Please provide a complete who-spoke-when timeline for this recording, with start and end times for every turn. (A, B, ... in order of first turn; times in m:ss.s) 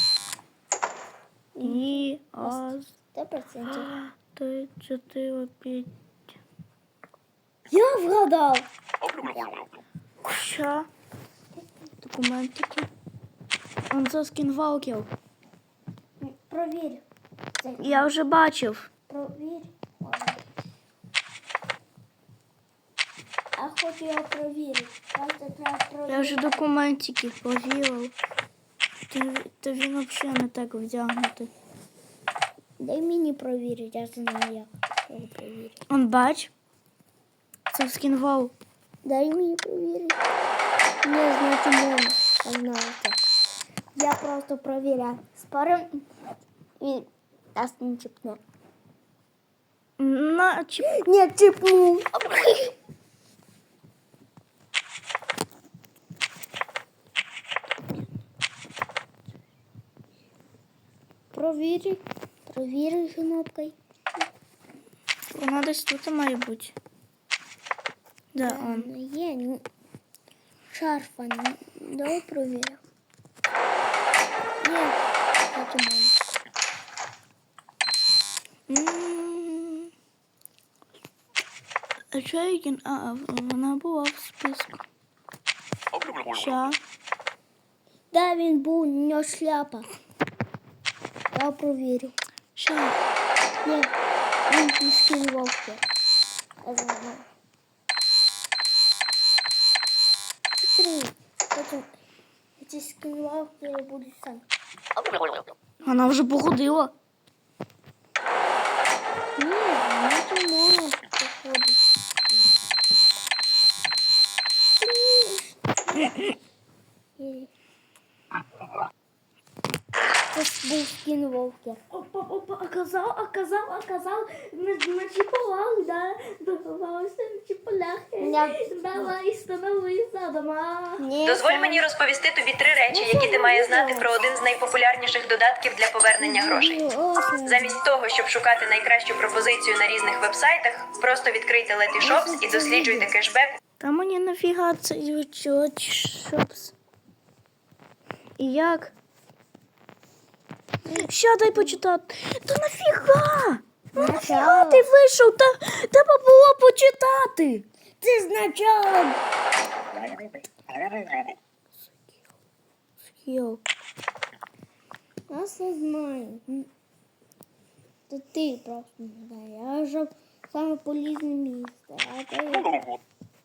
0:01.6-0:03.9 A
0:01.6-0:02.9 B
0:03.7-0:05.9 B
0:07.7-0:08.7 A
0:10.2-0:10.9 B
0:11.5-0:11.9 A
0:12.0-0:12.9 B
0:13.9-0:15.1 B
0:16.2-0:17.0 A
0:17.6-0:18.1 A
0:17.8-0:18.9 B
0:19.1-0:20.4 A
0:23.6-0:26.6 A
0:26.1-0:28.1 B
0:29.1-0:31.5 B
0:32.8-0:35.9 A
0:35.9-0:36.5 B
0:37.7-0:38.5 B
0:39.0-0:40.2 A
0:41.0-0:43.2 A
0:43.9-0:46.1 A
0:46.8-0:48.4 A
0:50.0-0:50.9 B
0:50.8-0:52.7 A
1:01.3-1:04.2 A
1:05.3-1:06.8 B
1:08.3-1:08.9 B
1:08.4-1:09.6 A
1:10.7-1:12.8 A
1:14.6-1:15.0 A
1:15.5-1:16.2 A
1:18.7-1:19.9 B
1:22.1-1:24.8 B
1:26.0-1:26.8 B
1:28.1-1:29.9 A
1:31.3-1:32.2 A
1:32.6-1:33.0 B
1:33.6-1:33.9 A
1:34.4-1:35.8 A
1:36.6-1:37.3 A
1:40.6-1:41.9 A
1:42.6-1:44.4 A
1:45.8-1:46.9 B
1:49.4-1:52.4 A
1:54.8-1:56.4 A
1:57.2-1:57.5 A
2:00.3-2:01.8 A
2:01.9-2:11.6 B
2:08.2-2:09.1 A
2:11.0-2:11.8 A
2:11.2-2:16.8 C
2:13.0-2:14.0 B
2:16.2-2:17.8 A
2:17.4-2:23.6 C
2:22.0-2:23.1 A
2:23.8-2:26.8 B
2:28.4-2:28.9 B
2:30.9-2:37.6 B
2:34.0-2:34.9 A
2:38.0-2:39.2 A
2:43.1-2:43.6 B
2:45.3-2:46.7 A
2:48.1-2:52.8 A